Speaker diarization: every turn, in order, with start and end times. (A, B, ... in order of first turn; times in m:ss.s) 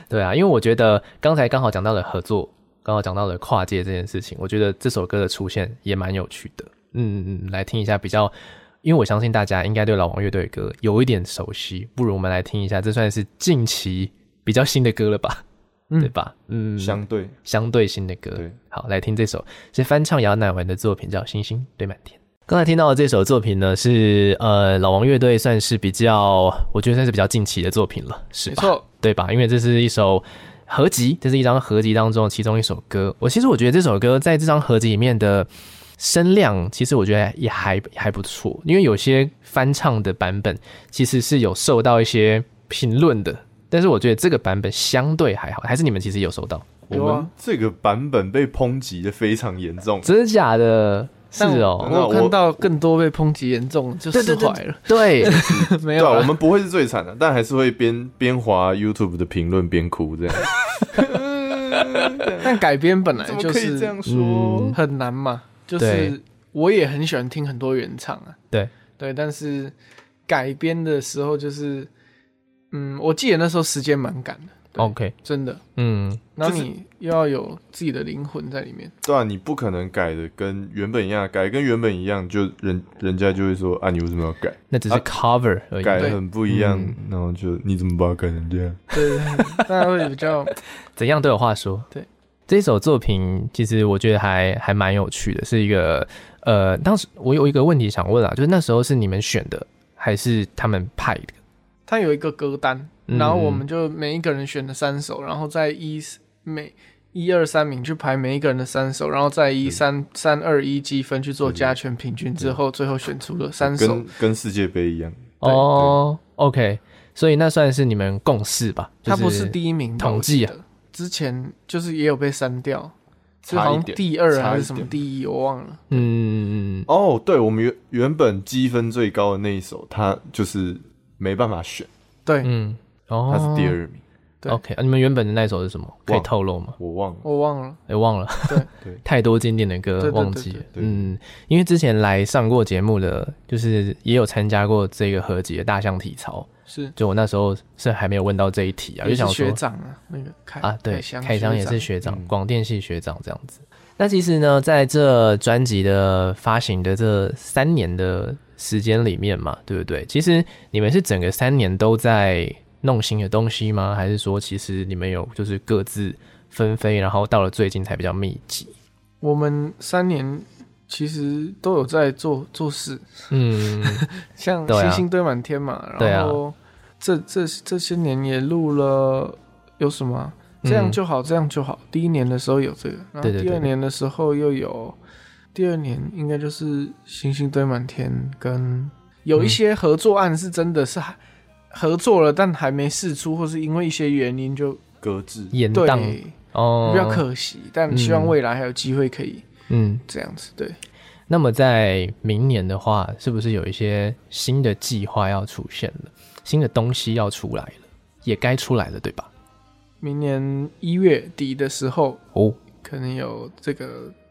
0:00.1-0:15.4 A
0:16.0-0:46.8 A
0:16.8-0:17.4 B
0:28.5-0:28.8 C
0:46.9-0:50.1 B
0:46.9-0:47.3 C
0:50.0-0:51.9 A
0:51.4-0:56.3 C
0:51.8-0:52.6 B
0:54.1-0:55.4 A
0:55.2-1:02.6 B
1:02.4-1:04.0 C
1:03.2-1:04.8 B
1:04.0-1:04.8 A
1:04.7-1:08.4 C
1:05.8-1:06.2 A
1:09.0-1:09.7 C
1:10.3-1:11.9 C
1:12.7-1:15.6 C
1:14.8-1:15.1 A
1:15.8-1:16.3 A
1:16.4-1:18.9 C
1:19.0-1:25.1 B
1:24.7-1:27.0 A
1:25.8-1:28.8 B
1:28.9-1:30.5 C
1:29.3-1:29.6 A
1:31.0-1:31.9 A
1:32.5-1:41.4 A
1:41.9-1:54.0 C
1:43.1-1:43.6 A
1:51.4-1:51.8 B
1:53.6-1:56.0 B
1:55.4-2:00.5 A
1:59.0-2:06.0 C
2:03.5-2:05.0 B
2:05.9-2:06.9 A
2:06.9-2:11.9 B
2:12.4-2:13.8 A
2:13.3-2:14.0 B
2:14.5-2:16.8 A
2:16.1-2:17.2 B
2:17.2-2:17.8 C
2:17.9-2:29.6 A
2:20.0-2:20.6 C
2:20.7-2:21.1 B
2:26.7-2:26.9 C
2:29.0-2:31.9 C
2:30.6-2:48.7 A
2:32.0-2:32.3 B
2:49.2-3:05.0 C
2:53.3-2:54.0 A
2:54.7-2:55.0 A
2:56.0-2:56.4 A
3:00.6-3:01.0 A
3:03.2-3:03.7 A
3:05.5-3:11.2 C
3:11.7-3:14.8 C
3:15.0-3:15.5 B
3:15.5-3:17.2 A
3:15.7-3:19.4 C
3:17.9-3:18.4 A
3:19.7-3:20.0 A
3:20.1-3:20.8 C
3:21.3-3:29.3 A
3:30.0-3:32.2 C
3:32.8-3:34.1 C